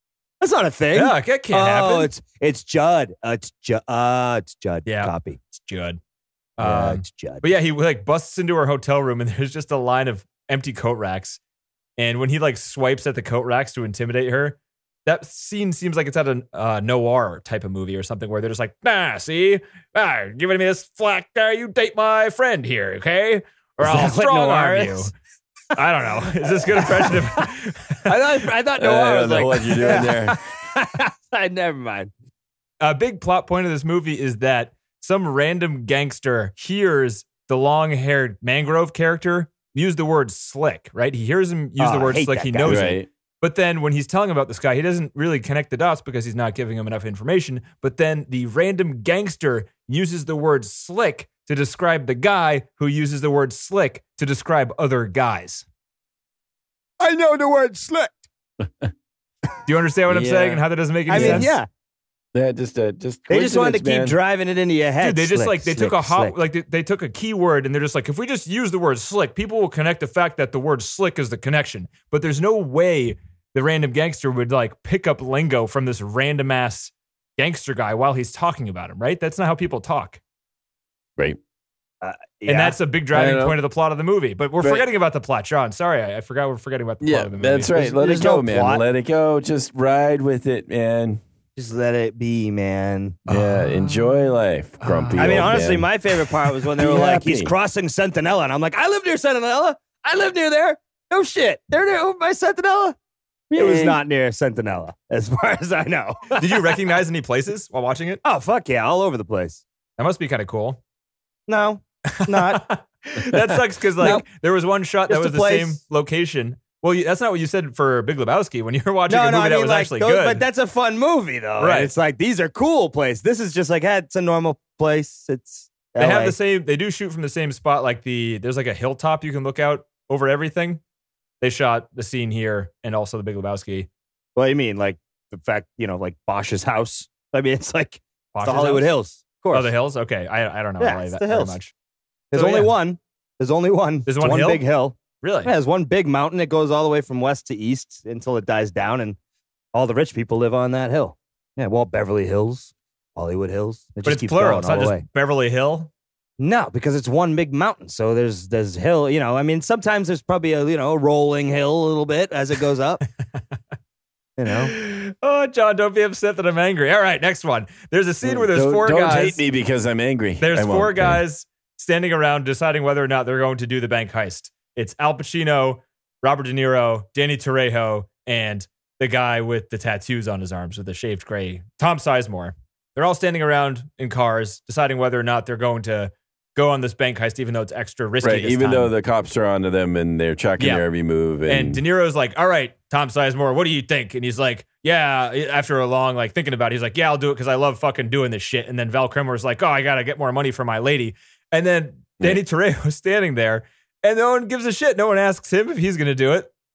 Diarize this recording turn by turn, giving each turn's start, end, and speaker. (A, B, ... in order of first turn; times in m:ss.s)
0:00.4-0:05.4 A
0:00.9-0:02.1 B
0:04.8-0:06.0 B
0:06.6-0:11.4 B
0:06.6-0:07.5 A
0:12.0-0:25.1 B
0:23.8-0:25.1 A
0:25.7-0:28.3 B
0:26.4-0:27.5 A
0:28.0-0:32.1 A
0:28.8-0:30.4 C
0:32.8-0:55.6 B
0:41.8-0:42.9 A
0:42.6-0:43.1 C
0:57.0-0:58.2 A
0:58.6-0:58.9 C
0:59.6-1:01.6 B
1:00.1-1:01.5 C
1:01.1-1:01.7 A
1:02.3-1:04.1 C
1:03.3-1:06.3 A
1:05.0-1:20.2 B
1:22.0-1:22.8 A
1:22.5-1:27.7 B
1:23.1-1:23.6 C
1:24.6-1:24.9 C
1:27.0-1:31.2 C
1:27.7-1:28.8 A
1:31.6-1:33.2 A
1:33.3-1:35.9 C
1:33.3-1:34.1 B
1:34.8-1:35.5 B
1:35.2-1:42.9 A
1:36.7-1:37.5 C
1:43.5-1:44.0 C
1:43.5-1:46.8 A
1:46.4-1:48.2 B
1:48.2-1:49.6 A
1:50.0-1:50.8 B
1:51.5-1:52.7 A
1:52.1-2:00.4 B
1:54.0-1:54.2 A
1:55.1-1:55.8 A
1:59.1-2:06.3 A
2:01.6-2:01.9 B
2:06.0-2:10.8 B
2:11.4-2:13.9 B
2:14.4-2:19.7 A
2:18.3-2:18.9 B
2:19.5-2:21.7 B
2:20.8-2:21.6 A
2:22.3-2:29.2 A
2:22.3-2:22.7 B
2:24.0-2:24.6 B
2:25.2-2:25.5 B
2:29.7-2:35.0 A
2:34.0-2:35.9 B
2:36.4-2:43.0 A
2:44.4-2:44.7 A
2:44.5-2:49.4 B
2:48.2-2:51.2 C
2:50.4-3:08.9 B
3:08.2-3:11.8 C
3:10.6-3:10.8 B
3:11.4-3:26.5 B